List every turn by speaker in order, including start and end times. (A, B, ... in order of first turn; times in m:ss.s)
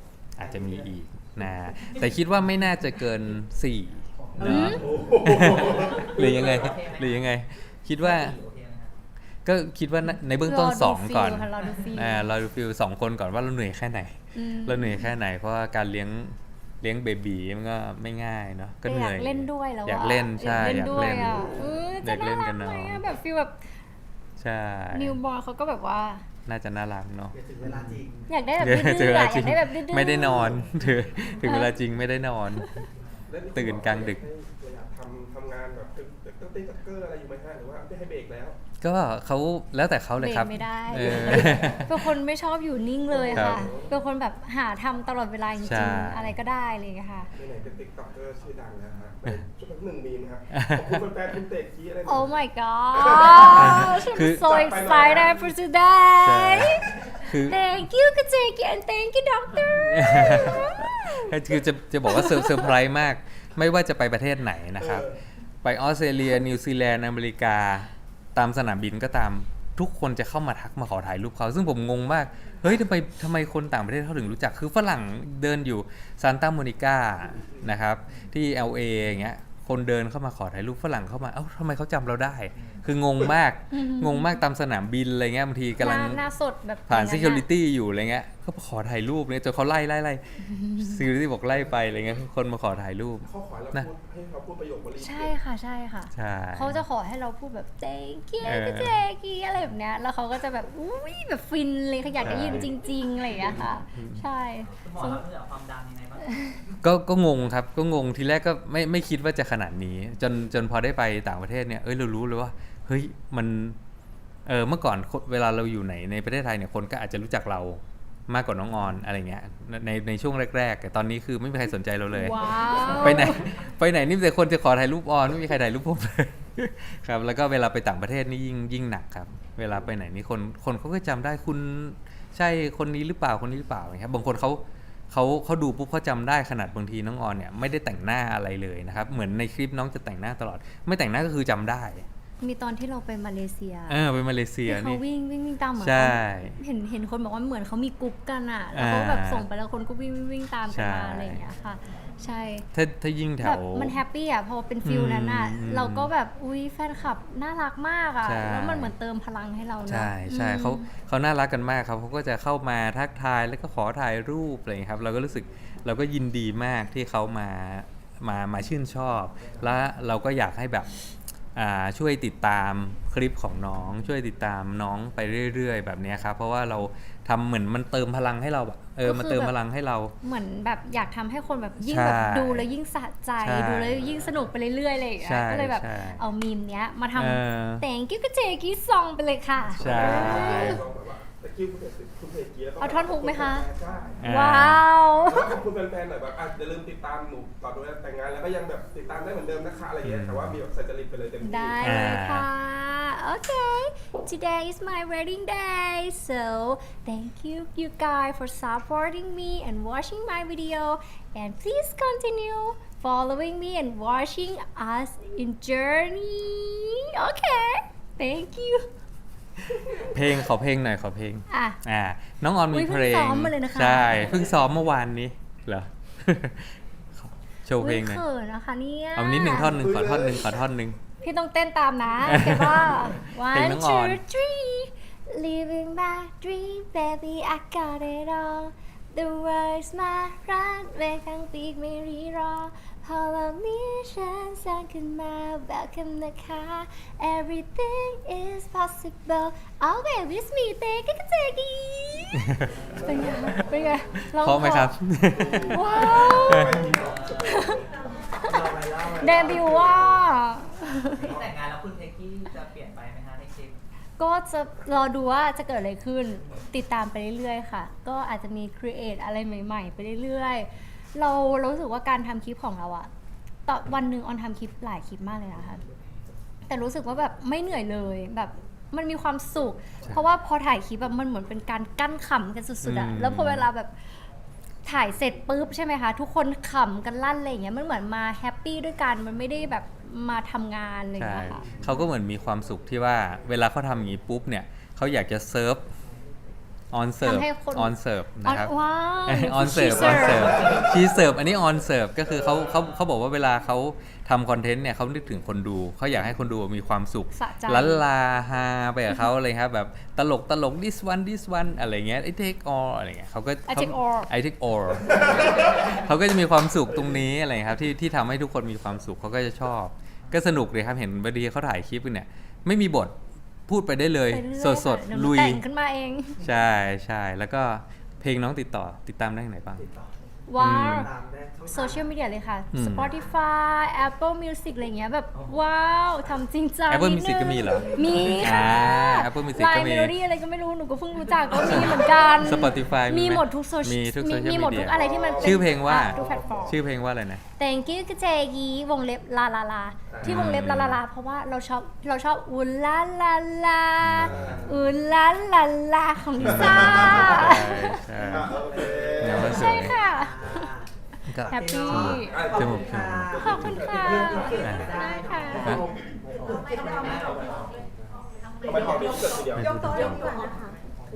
0:00.4-0:08.4 A
0:01.8-0:02.1 B
0:04.2-0:04.8 B
0:04.4-0:04.8 C
0:04.5-0:06.8 D
0:05.5-0:07.3 B
0:08.0-0:08.9 B
0:09.4-0:23.1 A
0:10.5-0:12.3 C
0:14.4-0:15.1 C
0:18.8-0:23.7 C
0:24.4-0:25.2 A
0:24.9-0:26.2 C
0:26.5-0:28.0 A
0:27.3-0:28.3 E
0:28.3-0:30.7 C
0:28.6-0:32.7 A
0:31.4-0:31.8 C
0:32.5-0:32.8 C
0:33.3-0:38.6 D
0:33.5-0:34.2 A
0:38.8-0:42.1 A
0:40.2-0:47.3 C
0:41.0-0:41.9 D
0:43.1-0:44.0 D
0:43.3-0:43.7 A
0:45.6-0:46.4 A
0:47.4-0:52.4 D
0:50.5-0:51.1 A
0:52.1-1:01.3 C
0:52.9-0:55.5 D
0:53.5-0:54.5 A
0:56.2-0:57.6 A
0:59.8-1:05.1 A
1:02.1-1:02.7 C
1:04.8-1:05.2 D
1:05.6-1:26.2 A
1:22.6-1:22.8 B
1:23.7-1:24.4 C
1:25.8-1:27.5 C
1:26.9-1:33.9 A
1:30.4-1:31.1 C
1:33.3-1:35.4 D
1:35.0-1:45.2 C
1:36.1-1:36.8 A
1:38.4-1:39.0 A
1:42.2-1:42.7 A
1:42.2-1:42.7 D
1:43.5-1:44.2 A
1:44.6-1:46.8 B
1:46.3-1:46.6 C
1:46.8-1:53.8 A
1:54.5-2:22.1 A
2:02.1-2:03.5 C
2:22.4-2:24.0 C
2:23.9-2:25.0 A
2:24.7-2:32.7 C
2:25.8-2:26.6 A
2:28.7-2:29.5 A
2:30.7-2:31.4 A
2:32.7-2:34.0 A
2:33.4-2:40.8 C
2:34.8-2:36.1 A
2:38.2-2:38.9 A
2:39.9-3:00.2 A
2:59.0-2:59.5 C
3:00.2-3:10.8 C
3:01.8-3:02.7 A
3:03.4-3:04.2 A
3:05.2-3:06.2 A
3:07.2-3:07.8 A
3:09.8-3:14.2 D
3:09.8-3:10.8 A
3:12.8-3:13.7 C
3:14.2-3:14.8 A
3:14.2-3:15.6 C
3:15.3-3:22.0 D
3:20.0-3:20.6 A
3:21.4-3:38.9 C
3:21.8-3:22.5 A
3:40.0-3:48.2 A
3:41.5-3:41.8 C
3:42.7-3:44.5 C
3:47.8-3:49.8 C
3:49.2-3:51.0 A
3:49.7-3:50.5 D
3:51.2-4:14.9 C
3:52.3-3:54.2 A
4:12.4-4:12.8 A
4:12.8-4:14.0 D
4:14.4-4:15.8 A
4:15.3-4:18.1 D
4:15.6-4:16.9 C
4:16.4-4:16.9 A
4:16.8-4:17.8 B
4:17.4-4:17.8 C
4:18.4-4:21.4 C
4:18.4-4:20.2 E
4:21.2-4:23.8 B
4:24.2-4:33.1 C
4:33.7-4:35.8 C
4:36.7-4:43.9 C
4:42.8-4:43.7 A
4:44.8-4:51.7 C
4:51.2-4:55.9 A
4:51.7-4:52.1 D
4:56.9-4:58.7 A
4:57.2-5:00.8 C
4:59.3-5:23.2 A
5:00.5-5:00.9 D
5:07.3-5:08.0 C
5:13.7-5:14.3 C
5:15.1-5:15.8 D
5:15.5-5:15.8 B
5:23.7-5:25.6 A
5:24.3-5:26.4 C
5:26.4-5:29.9 A
5:29.8-5:32.1 E
5:30.5-5:31.1 C
5:30.6-5:31.1 A
5:31.7-5:46.8 C
5:32.7-5:33.1 A
5:36.9-5:40.1 A
5:41.6-5:47.4 A
5:44.9-5:46.7 D
5:47.6-5:58.0 C
5:50.1-5:50.4 D
5:50.2-5:51.0 A
5:54.0-5:54.8 A
5:54.2-5:54.9 D
5:56.4-5:59.9 D
5:56.4-6:00.0 A
5:59.3-6:00.7 C
5:59.3-6:00.9 E
6:01.3-6:03.9 A
6:01.4-6:07.8 E
6:01.5-6:02.4 C
6:02.3-6:05.9 D
6:03.4-6:05.8 C
6:04.6-6:05.0 A
6:05.6-6:05.9 A
6:08.6-6:10.1 D
6:08.7-6:10.8 F
6:09.5-6:10.4 A